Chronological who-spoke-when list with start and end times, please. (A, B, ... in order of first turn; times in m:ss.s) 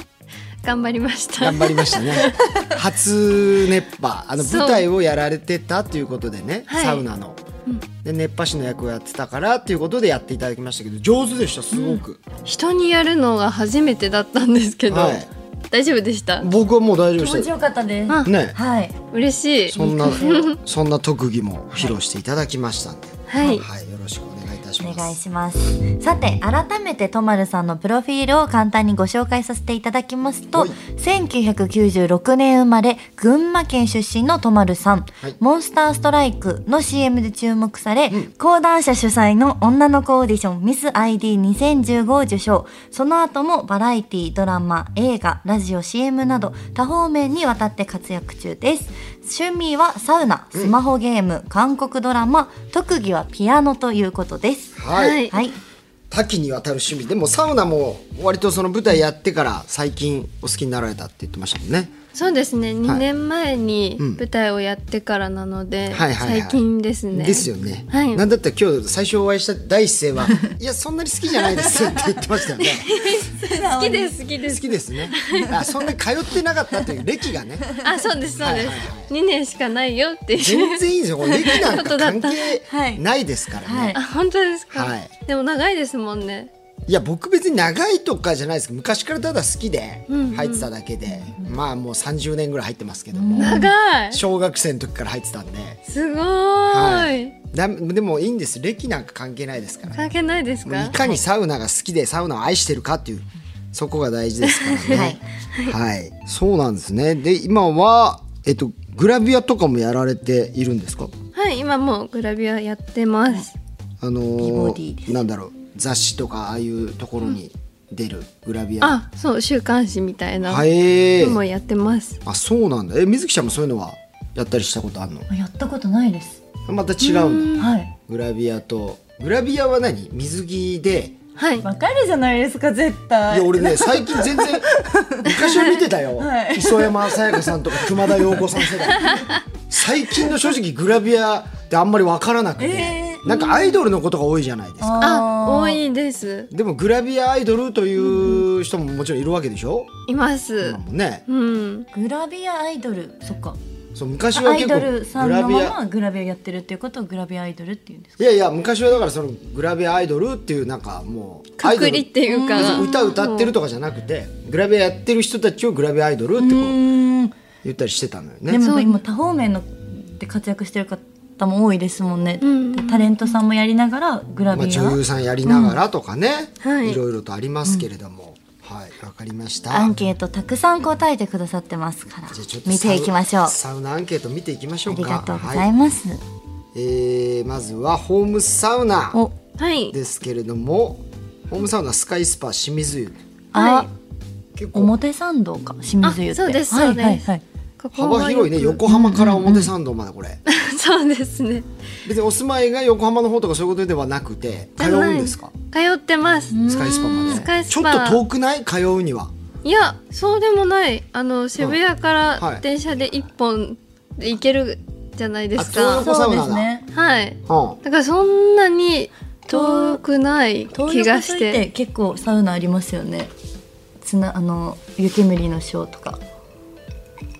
0:00.6-0:02.4 A
0:01.4-0:07.4 B
0:04.4-0:04.8 A
0:06.7-0:07.0 A
0:08.0-0:12.2 B
0:12.4-0:16.5 A
0:14.9-0:15.3 B
0:16.4-0:17.5 B
0:17.2-0:18.9 C
0:18.2-0:18.6 B
0:19.1-0:20.6 A
0:19.7-0:25.2 B
0:19.8-0:20.5 C
0:23.3-0:23.6 A
0:24.8-0:54.8 C
0:54.8-0:55.3 B
0:54.9-0:55.4 A
0:55.3-0:55.6 C
0:56.1-1:01.9 B
1:02.1-1:08.2 A
1:05.9-1:12.9 B
1:11.6-1:12.1 C
1:12.6-1:15.6 A
1:13.2-1:14.2 C
1:14.4-1:17.7 B
1:15.2-1:15.5 C
1:17.8-1:22.5 A
1:18.4-1:19.1 B
1:20.4-1:24.0 B
1:22.7-1:23.0 C
1:23.6-1:24.0 C
1:23.9-1:26.5 A
1:24.7-1:25.1 B
1:26.9-1:35.8 B
1:30.1-1:30.7 A
1:31.2-1:31.5 C
1:33.1-1:33.7 C
1:33.4-1:34.2 A
1:35.9-1:37.3 A
1:36.7-1:40.0 B
1:39.9-1:41.0 A
1:40.6-1:51.1 B
1:44.4-1:45.7 A
1:44.9-1:45.2 C
1:51.3-1:53.5 A
1:54.0-1:59.0 B
1:54.4-1:55.2 C
1:58.8-2:02.2 A
2:00.4-2:01.4 B
2:02.2-2:05.3 B
2:05.3-2:06.4 C
2:06.7-2:07.6 B
2:07.0-2:07.7 A
2:07.6-2:07.9 C
2:08.1-2:11.2 B
2:11.4-2:11.6 A
2:11.6-2:15.5 C
2:13.3-2:14.7 B
2:15.2-2:25.1 B
2:16.2-2:19.1 C
2:22.6-2:23.2 C
2:23.2-2:23.8 A
2:24.8-2:25.8 C
2:25.0-2:26.5 A
2:26.5-2:29.9 B
2:28.0-2:28.4 C
2:30.1-2:31.9 A
2:30.6-2:31.2 B
2:31.9-2:33.6 C
2:33.9-2:35.8 B
2:34.3-2:38.2 C
2:38.2-2:46.8 B
2:41.6-2:43.5 A
2:42.3-2:42.9 C
2:46.4-2:47.3 C
2:47.6-2:48.6 B
2:48.5-2:55.8 C
2:48.6-2:49.0 A
2:52.4-2:53.3 A
2:54.5-2:59.9 B
2:56.6-2:57.0 A
2:59.7-3:03.6 C
3:02.3-3:05.7 B
3:04.9-3:06.2 C
3:06.7-3:09.2 B
3:09.6-3:09.9 A
3:09.9-3:13.2 B
3:13.5-3:13.9 C
3:13.5-3:13.9 A
3:14.5-3:14.9 B
3:14.7-3:17.4 C
3:16.0-3:17.3 A
3:17.8-3:18.8 A
3:17.9-3:20.4 B
3:18.9-3:19.7 C
3:20.4-3:21.7 A
3:22.0-3:25.5 B
3:24.8-3:28.2 A
3:26.5-3:27.5 C
3:26.6-3:29.3 B
3:29.6-3:36.1 A
3:32.4-3:32.6 B
3:35.6-3:36.7 B
3:36.0-3:36.9 C
3:36.9-3:41.6 A
3:37.5-3:37.8 B
3:39.5-3:40.0 C
3:40.7-3:43.3 C
3:44.0-3:46.2 C